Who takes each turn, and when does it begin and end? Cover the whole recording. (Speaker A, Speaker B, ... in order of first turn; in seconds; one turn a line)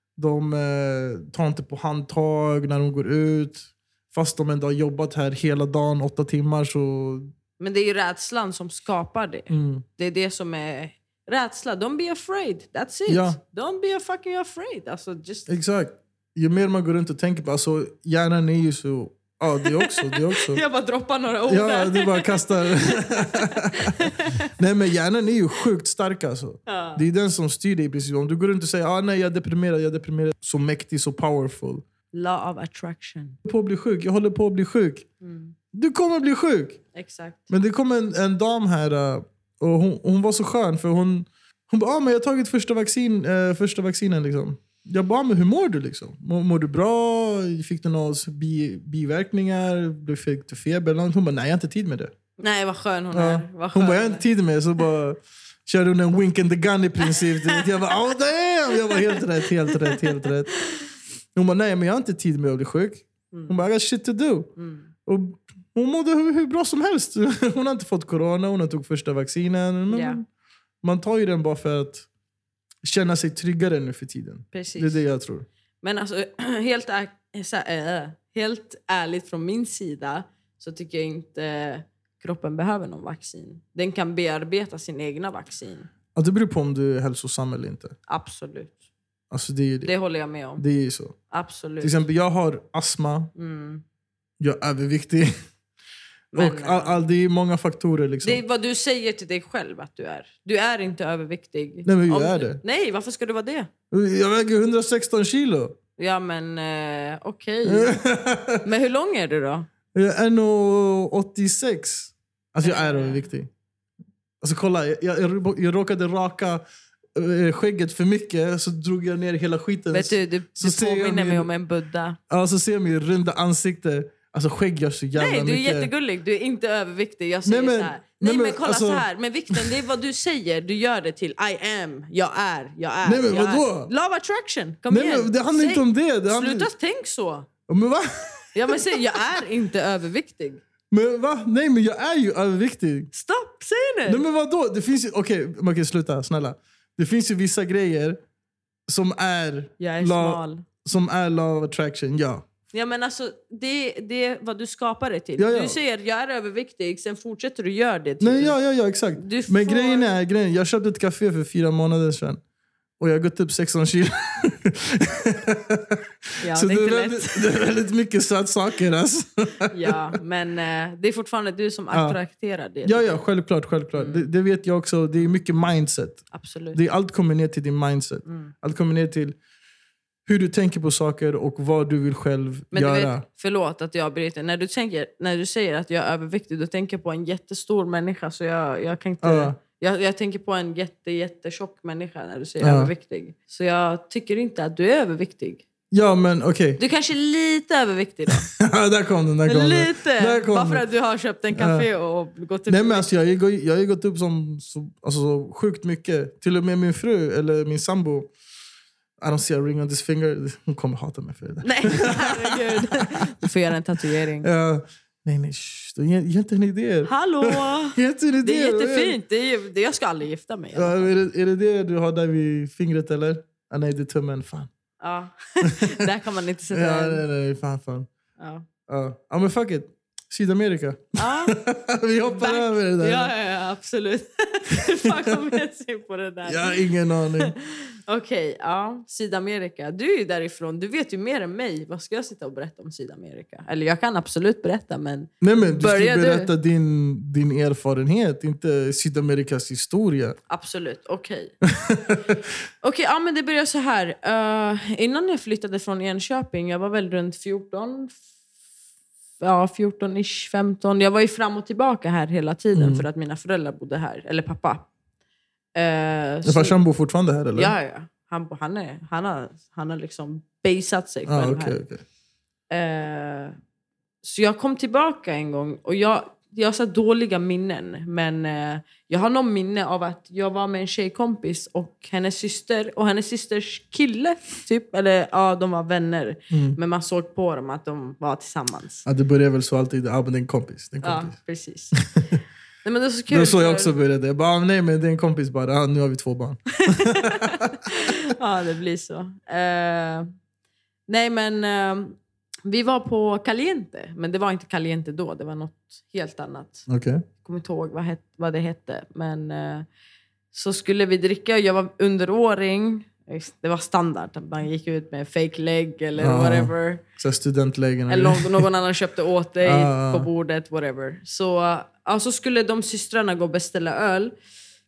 Speaker A: 0.2-7.3
Speaker B: 7.6-15.5
Speaker A: 9.5-9.8
Speaker A: 13.1-13.4
Speaker A: 15.5-20.6
Speaker B: 19.6-24.5
Speaker A: 21.5-31.8
Speaker B: 26.6-27.0
Speaker B: 32.1-33.4
Speaker A: 33.4-35.1
Speaker B: 35.2-35.5
Speaker A: 35.7-36.8
Speaker B: 36.9-37.5
Speaker A: 37.5-52.1
Speaker B: 52.4-54.2
Speaker A: 53.1-60.5
Speaker B: 57.1-57.6
Speaker B: 59.7-60.1
Speaker A: 61.3-64.5
Speaker B: 63.3-63.7
Speaker B: 64.5-64.9
Speaker A: 65.0-70.2
Speaker B: 69.9-70.2
Speaker A: 70.8-72.1
Speaker A: 72.8-75.5
Speaker B: 74.5-75.0
Speaker B: 75.8-85.9
Speaker A: 86.1-87.9
Speaker B: 88.1-88.8
Speaker A: 89.3-89.9
Speaker B: 89.8-90.6
Speaker A: 90.5-91.2
Speaker B: 91.3-92.0
Speaker A: 91.8-93.3
Speaker B: 93.3-93.8
Speaker A: 94.4-95.3
Speaker B: 96.3-97.0
Speaker A: 96.3-98.4
Speaker B: 98.2-103.7
Speaker A: 101.8-102.6
Speaker A: 103.9-105.8
Speaker B: 106.0-108.0
Speaker A: 107.6-108.6
Speaker B: 108.6-109.7
Speaker A: 109.9-113.5
Speaker B: 112.6-113.2
Speaker A: 114.4-116.6
Speaker A: 117.1-121.5
Speaker B: 119.9-122.2
Speaker A: 122.3-125.9
Speaker B: 125.1-137.5
Speaker A: 127.4-129.8
Speaker A: 133.0-133.9
Speaker A: 134.9-136.7
Speaker A: 137.7-139.4
Speaker B: 138.5-140.6
Speaker A: 140.9-143.1
Speaker B: 143.1-144.2
Speaker A: 144.1-148.2
Speaker A: 148.9-152.4
Speaker B: 149.8-150.7
Speaker B: 152.7-158.6
Speaker A: 155.4-155.8
Speaker A: 158.2-162.4
Speaker B: 159.2-160.1
Speaker A: 163.0-170.1
Speaker B: 166.4-167.6
Speaker B: 169.7-173.2
Speaker A: 171.9-172.2
Speaker A: 172.8-179.4
Speaker B: 173.9-174.3
Speaker B: 176.3-176.8
Speaker B: 178.2-178.5
Speaker A: 180.2-183.2
Speaker B: 182.7-195.7
Speaker A: 189.2-189.6
Speaker A: 192.6-192.9
Speaker A: 195.9-196.8
Speaker B: 196.8-198.5
Speaker A: 198.5-200.8
Speaker B: 199.4-203.1
Speaker A: 201.5-201.8
Speaker A: 202.7-208.3
Speaker A: 209.2-213.5
Speaker B: 211.6-214.5
Speaker A: 214.4-219.2
Speaker B: 217.1-221.1
Speaker A: 220.7-224.7
Speaker B: 225.0-227.2
Speaker A: 225.6-225.9
Speaker A: 226.7-228.1
Speaker B: 228.4-228.6
Speaker A: 228.9-233.3
Speaker B: 231.2-231.6
Speaker B: 232.2-246.5
Speaker A: 234.9-235.4
Speaker A: 236.4-237.5
Speaker A: 245.4-250.4
Speaker B: 250.5-251.6
Speaker A: 251.6-252.4
Speaker B: 252.8-258.2
Speaker B: 259.4-264.9
Speaker A: 262.7-263.1
Speaker B: 265.7-266.8
Speaker A: 266.4-267.7
Speaker B: 267.5-271.8
Speaker A: 271.2-272.0
Speaker B: 272.7-273.6
Speaker B: 274.2-289.0
Speaker A: 286.5-286.8
Speaker A: 289.0-291.3
Speaker B: 291.0-292.0
Speaker A: 291.9-292.3
Speaker B: 292.8-293.9
Speaker A: 293.3-297.7
Speaker B: 296.8-300.3
Speaker B: 301.1-306.9
Speaker A: 306.9-307.2
Speaker B: 307.4-309.9
Speaker B: 310.5-317.0
Speaker A: 316.2-318.7
Speaker B: 318.1-324.3
Speaker A: 319.6-320.3